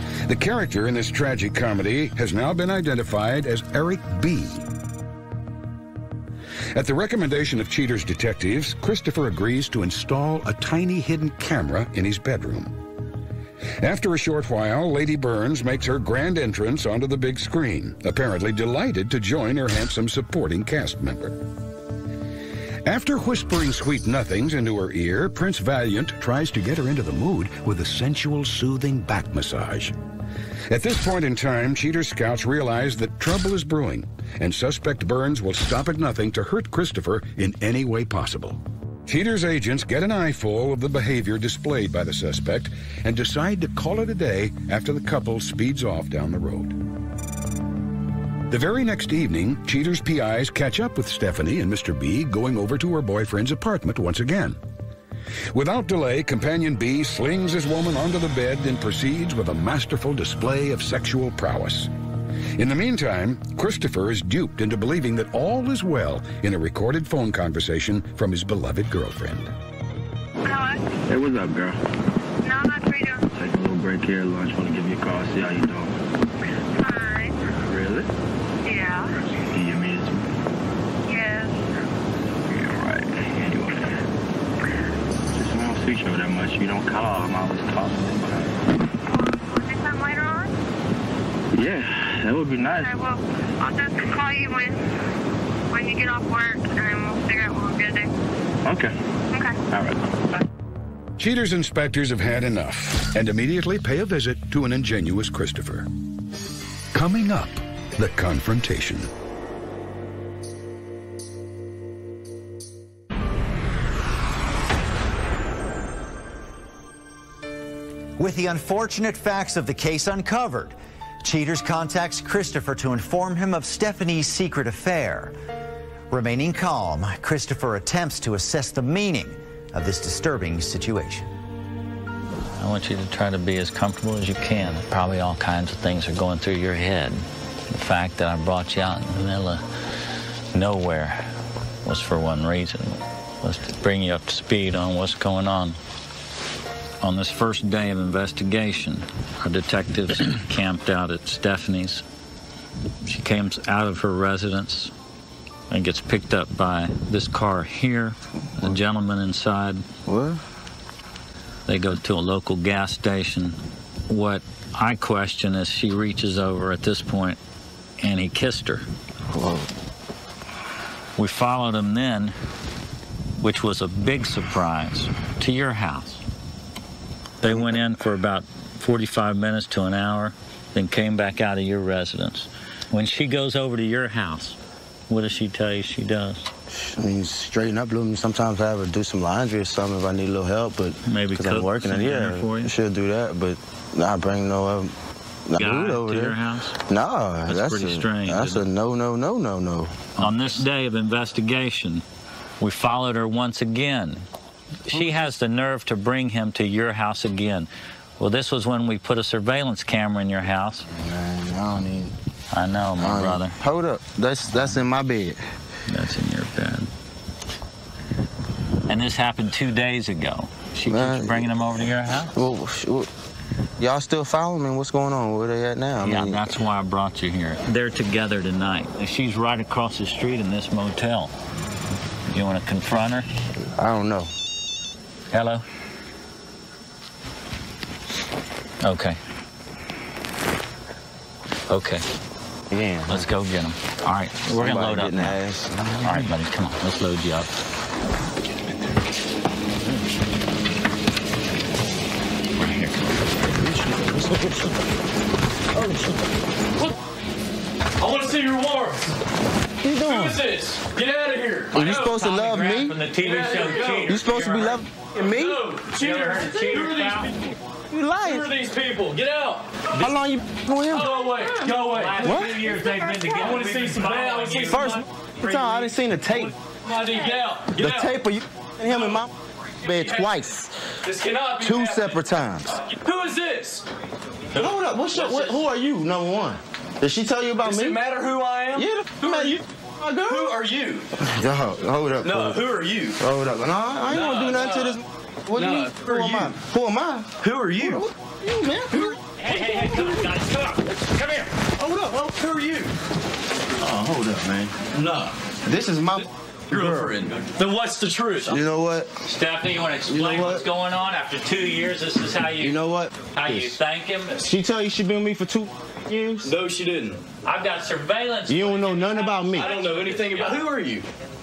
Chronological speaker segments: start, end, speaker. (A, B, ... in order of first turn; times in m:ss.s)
0:00.2-0:04.7 A
0:06.7-0:12.8 A
0:13.8-0:21.4 A
0:22.8-0:30.0 A
0:30.7-0:46.8 A
0:48.5-0:54.6 A
0:55.5-1:01.9 A
1:02.6-1:09.5 A
1:10.4-1:10.9 B
1:11.1-1:11.8 C
1:12.4-1:13.3 B
1:13.3-1:16.0 C
1:16.7-1:17.4 B
1:17.6-1:18.1 C
1:18.6-1:19.1 B
1:19.5-1:20.2 C
1:21.0-1:21.6 B
1:22.5-1:23.9 C
1:25.3-1:28.6 C
1:29.1-1:30.5 B
1:31.5-1:32.9 C
1:32.8-1:34.8 B
1:35.7-1:38.1 B
1:38.6-1:38.9 C
1:39.3-1:39.6 B
1:39.7-1:40.0 C
1:41.2-1:45.9 A
1:46.9-1:49.1 A
1:58.2-2:05.3 D
2:06.1-2:11.3 D
2:12.6-2:19.6 E
2:20.5-2:21.3 E
2:21.8-2:25.8 E
2:27.0-2:32.0 E
2:33.0-2:34.9 E
2:35.7-2:39.8 E
2:40.1-2:40.4 C
2:41.7-2:43.6 E
2:44.1-2:47.4 E
2:48.0-2:48.8 E
2:49.3-2:49.7 C
2:51.2-2:52.3 E
2:53.4-2:56.2 E
2:57.4-3:04.6 E
3:05.1-3:06.5 E
3:06.7-3:14.9 C
3:11.0-3:12.7 E
3:15.5-3:20.3 C
3:15.6-3:16.8 E
3:17.4-3:18.7 E
3:20.2-3:22.0 E
3:22.6-3:24.2 E
3:24.9-3:30.8 E
3:30.9-3:32.1 C
3:32.5-3:33.6 E
3:33.0-3:35.4 C
3:34.5-3:34.8 E
3:35.9-3:36.9 E
3:38.9-3:42.3 E
3:40.8-3:43.1 C
3:43.8-3:46.5 C
3:46.0-3:51.3 E
3:52.3-3:53.2 E
3:53.8-3:54.3 C
3:55.3-3:55.6 E
3:58.8-3:59.2 E
4:01.7-4:02.0 E
4:02.7-4:03.3 C
4:03.1-4:05.4 E
4:04.5-4:06.3 C
4:06.0-4:07.5 E
4:12.5-4:13.5 E
4:18.0-4:19.0 F
4:19.8-4:20.4 C
4:20.0-4:21.9 F
4:21.7-4:23.0 C
4:21.8-4:24.7 E
4:23.2-4:29.7 F
4:24.0-4:25.6 C
4:25.9-4:27.3 E
4:30.0-4:31.1 C
4:30.8-4:35.6 F
4:31.9-4:35.0 E
4:32.2-4:32.6 C
4:34.7-4:36.5 C
4:36.4-4:38.2 F
4:37.7-4:39.3 C
4:39.8-4:40.7 C
4:39.9-4:40.3 F
4:41.0-4:43.8 F
4:41.6-4:42.8 C
4:44.6-4:48.0 C
4:45.2-4:45.6 F
4:47.6-4:51.1 F
4:48.8-4:50.4 C
4:51.2-4:52.6 C
4:52.2-4:53.2 F
4:53.2-4:59.0 C
4:54.1-4:55.0 F
4:55.5-4:56.5 F
4:57.4-4:58.1 F
4:59.4-5:01.5 E
5:01.8-5:02.9 F
5:03.8-5:04.8 C
5:04.9-5:05.3 F
5:05.6-5:07.1 C
5:06.2-5:08.6 F
5:08.5-5:09.2 C
5:09.2-5:14.6 E
5:10.1-5:10.7 C
5:12.6-5:13.8 C
5:14.4-5:16.4 C
5:16.4-5:17.2 F
5:17.4-5:20.6 E
5:18.5-5:19.8 C
5:19.5-5:21.1 F